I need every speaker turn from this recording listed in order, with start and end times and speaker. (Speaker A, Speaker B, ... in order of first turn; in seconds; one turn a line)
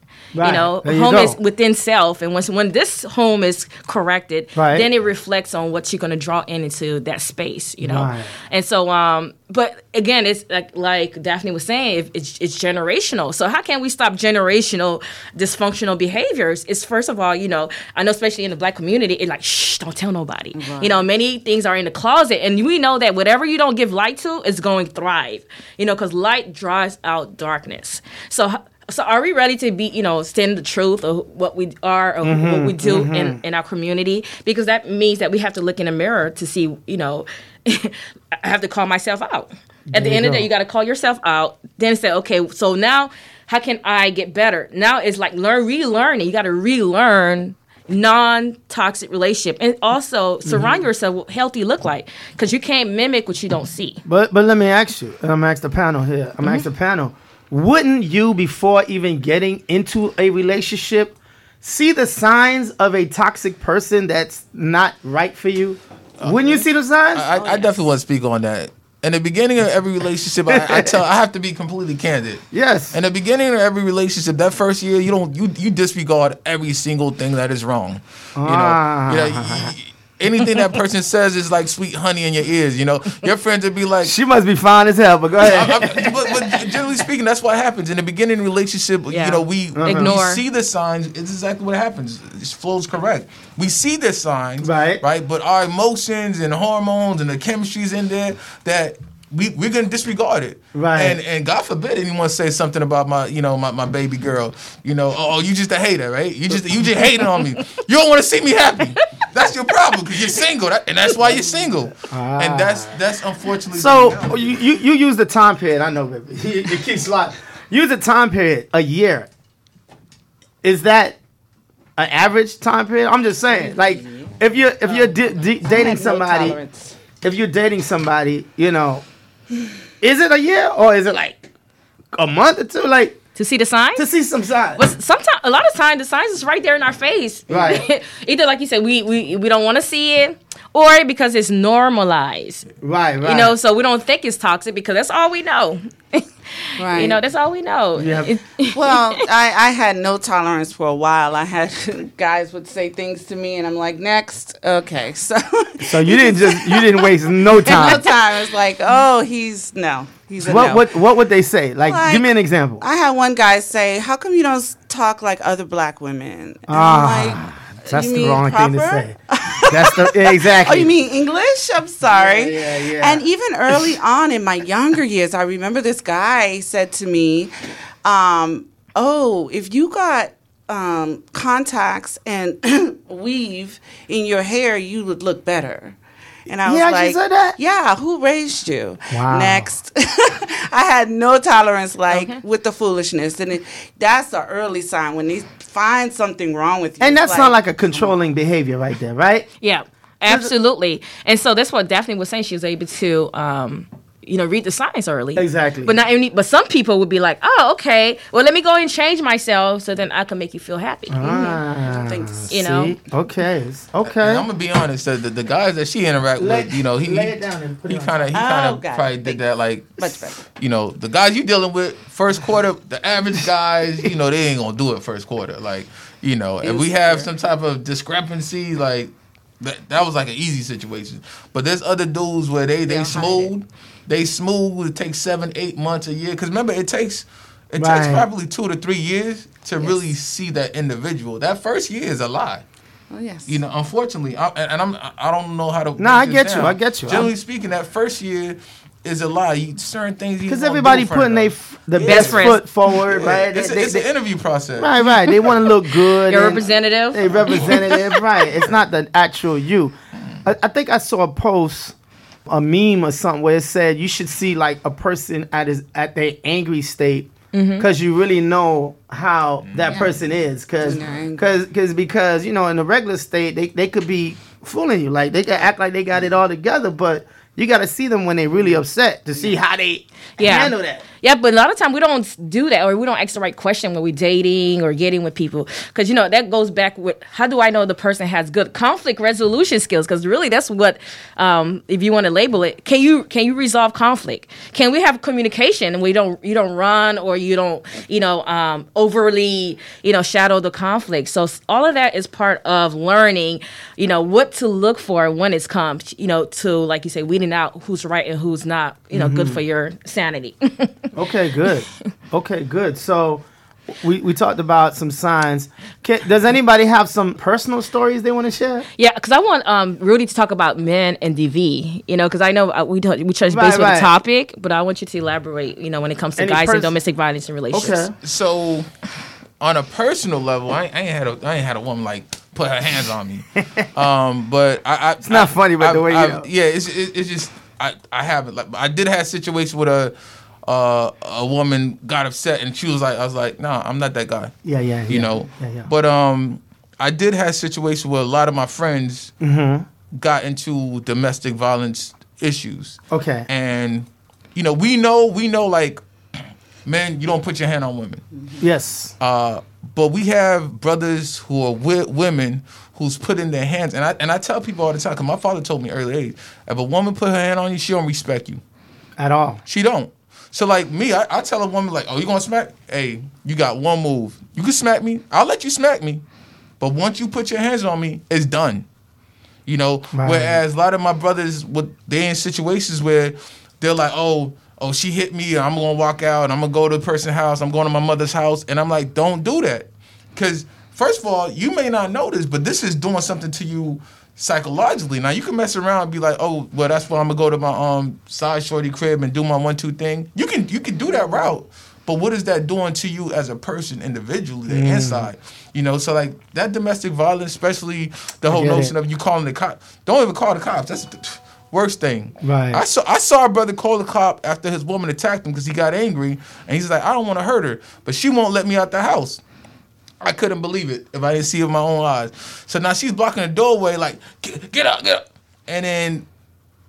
Speaker A: 0.3-1.4
Speaker B: 0.4-54.0
Speaker A: 4.5-4.9
Speaker A: 7.8-8.3
Speaker C: 20.5-21.1
Speaker A: 32.2-33.4
Speaker A: 39.9-40.5
Speaker A: 50.5-50.8
Speaker A: 54.0-67.2
Speaker D: 66.2-84.2
Speaker C: 67.3-67.7
Speaker A: 70.5-70.9
Speaker A: 72.5-73.0
Speaker A: 78.4-79.7
Speaker A: 84.0-86.6
Speaker D: 85.4-114.6
Speaker B: 89.1-90.4
Speaker A: 89.7-90.1
Speaker A: 94.6-95.0
Speaker A: 100.7-101.2
Speaker A: 112.0-113.0
Speaker A: 113.7-119.3
Speaker A: 120.6-121.2
Speaker A: 122.0-126.6
Speaker C: 123.5-127.0
Speaker A: 127.2-129.0
Speaker A: 130.0-131.5
Speaker A: 132.1-133.2
Speaker B: 133.3-134.1
Speaker A: 133.9-134.8
Speaker B: 134.8-142.7
Speaker A: 137.5-137.8
Speaker A: 142.8-143.6
Speaker B: 143.2-149.2
Speaker C: 146.8-147.2
Speaker A: 147.9-148.3
Speaker C: 148.7-161.0
Speaker A: 155.8-158.0
Speaker A: 160.4-162.8
Speaker C: 161.8-198.1
Speaker A: 166.7-170.9
Speaker A: 172.1-173.2
Speaker A: 186.6-187.6
Speaker A: 189.1-189.7
Speaker B: 192.1-192.4
Speaker A: 197.0-199.5
Speaker B: 199.6-211.6
Speaker A: 200.2-200.5
Speaker A: 205.3-205.9
Speaker A: 211.1-214.4
Speaker C: 211.2-212.6
Speaker B: 212.5-212.9
Speaker D: 214.0-242.6
Speaker A: 216.4-218.3
Speaker C: 218.3-219.4
Speaker C: 220.0-220.4
Speaker C: 226.6-227.3
Speaker C: 232.8-233.5
Speaker A: 237.8-238.3
Speaker C: 243.1-243.6
Speaker D: 243.5-255.7
Speaker A: 246.0-247.3
Speaker A: 250.5-254.1
Speaker B: 252.0-252.6
Speaker A: 254.8-261.9
Speaker B: 256.3-258.0
Speaker D: 257.5-257.8
Speaker A: 262.5-281.0
Speaker B: 267.5-267.9
Speaker D: 269.6-270.1
Speaker C: 269.9-270.1
Speaker C: 270.8-271.5
Speaker D: 271.0-271.2
Speaker C: 279.3-279.6
Speaker B: 280.4-311.1
Speaker A: 309.1-309.6
Speaker A: 311.1-313.4
Speaker A: 314.0-318.9
Speaker B: 319.0-328.1
Speaker A: 323.5-324.1
Speaker A: 326.4-326.9
Speaker A: 327.7-328.1
Speaker D: 328.2-328.9
Speaker D: 329.6-340.1
Speaker A: 333.6-333.9
Speaker A: 335.2-336.5
Speaker D: 340.6-344.5
Speaker A: 344.6-345.9
Speaker D: 345.1-349.3
Speaker A: 349.4-349.9
Speaker D: 350.1-358.2
Speaker A: 353.1-353.5
Speaker C: 358.3-358.6
Speaker A: 358.6-359.1
Speaker D: 359.2-368.6
Speaker A: 369.2-369.6
Speaker D: 369.6-376.2
Speaker D: 376.8-378.9
Speaker D: 379.6-419.4
Speaker A: 380.1-380.6
Speaker C: 400.9-401.5
Speaker A: 404.7-405.3
Speaker A: 408.5-408.9
Speaker A: 412.4-412.8
Speaker D: 420.2-426.2